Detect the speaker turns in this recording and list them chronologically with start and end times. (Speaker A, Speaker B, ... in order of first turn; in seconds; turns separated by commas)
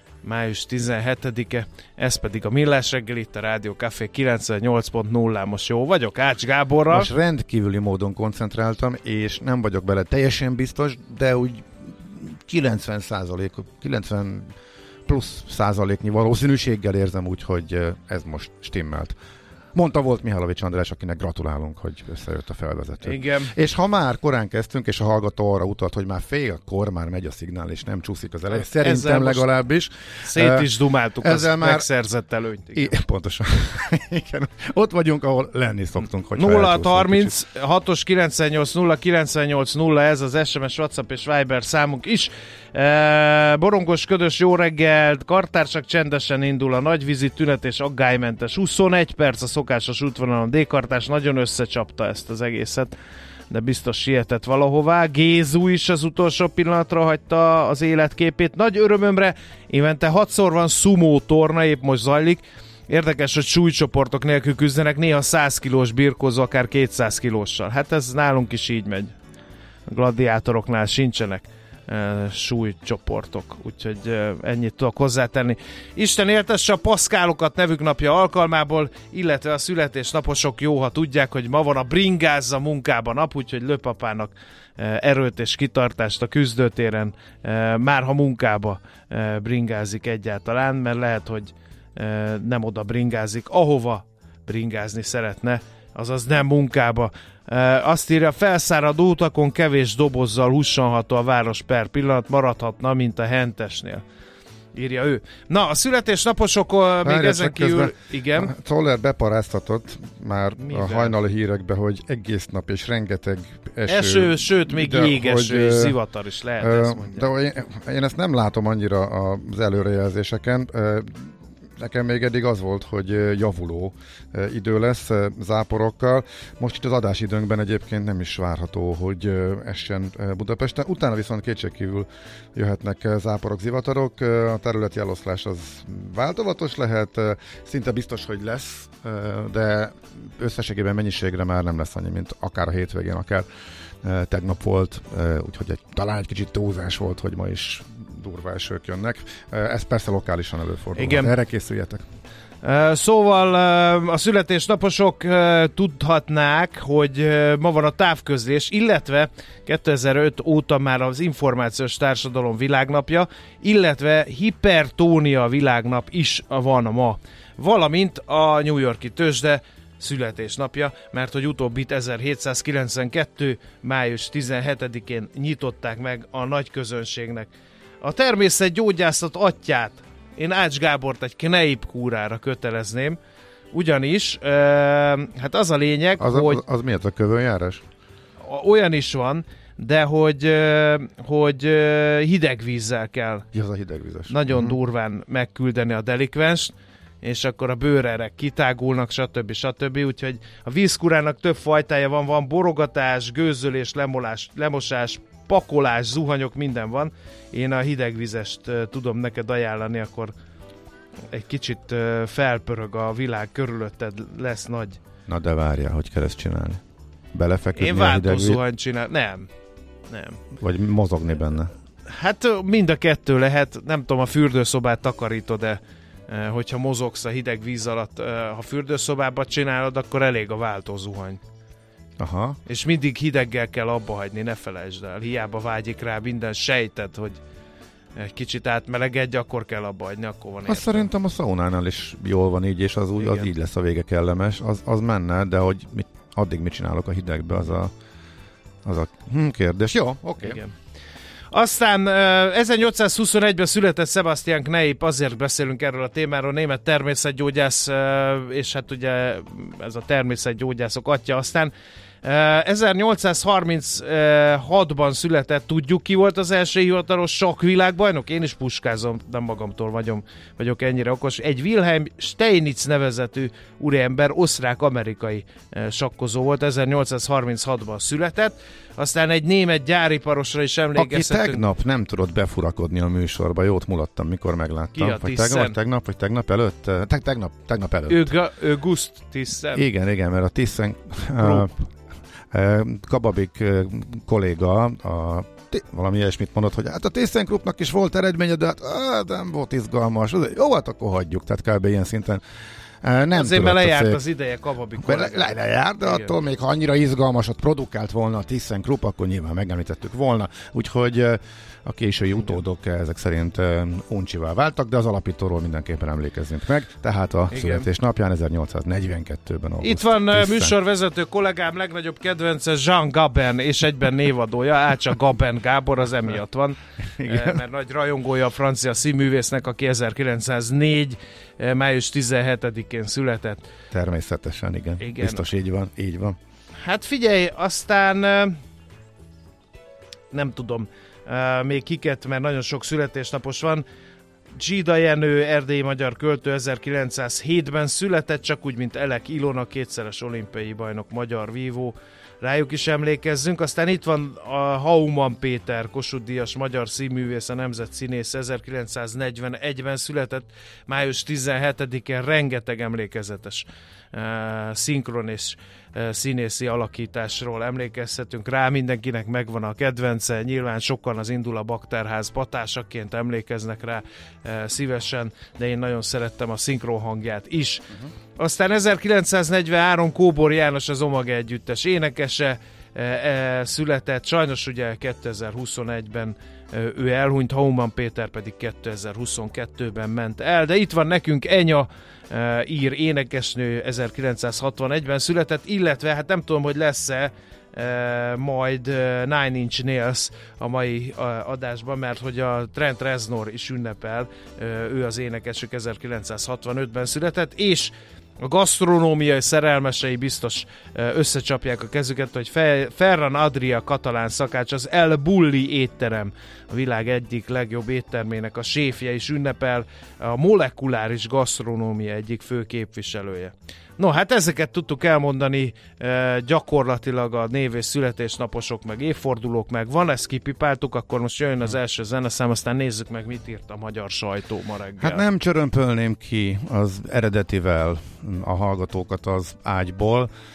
Speaker A: 0.2-7.1, Speaker B: 6.9-14.5, Speaker B: 15.1-19.2, Speaker B: 19.7-31.9, Speaker A: 23.0-23.5, Speaker A: 28.5-29.5, Speaker A: 30.2-32.9, Speaker B: 32.7-37.4, Speaker A: 36.4-53.0, Speaker A: 53.5-69.1, Speaker A: 69.9-104.0, Speaker A: 104.8-108.5, Speaker B: 107.0-116.0, Speaker A: 110.6-111.2, Speaker A: 113.9-117.3, Speaker B: 116.6-143.4, Speaker B: 144.0-152.1, Speaker A: 151.0-151.3, Speaker A: 152.6-177.5, Speaker A: 178.0-183.2, Speaker A: 183.7-186.6, Speaker B: 186.2-187.8, Speaker A: 188.4-193.4, Speaker B: 193.5-194.8, Speaker A: 194.3-210.3, Speaker A: 211.3-215.0, Speaker B: 215.3-216.8, Speaker B: 217.3-218.6, Speaker A: 217.8-219.5, Speaker A: 220.1-220.4, Speaker B: 220.6-221.7, Speaker A: 222.1-231.4, Speaker B: 232.2-232.6, Speaker A: 232.7-237.4, Speaker A: 238.2-241.1, Speaker B: 240.7-247.9, Speaker A: 243.2-243.5, Speaker B: 248.8-250.6, Speaker A: 250.4-250.7, Speaker A: 251.5-261.7, Speaker A: 262.2-281.6, Speaker B: 281.0-288.3, Speaker A: 284.9-285.8, Speaker A: 288.1-289.9, Speaker B: 289.7-291.8, Speaker A: 291.4-291.7, Speaker B: 292.5-302.4, Speaker B: 303.0-304.2, Speaker A: 303.3-306.3, Speaker B: 305.0-320.8, Speaker A: 317.5-317.9, Speaker A: 319.8-333.6, Speaker B: 327.2-327.6, Speaker B: 333.9-336.4, Speaker A: 335.0-335.4, Speaker A: 336.8-338.6, Speaker A: 340.3-343.9, Speaker A: 344.6-377.9, Speaker A: 378.4-435.2, Speaker B: 435.0-440.3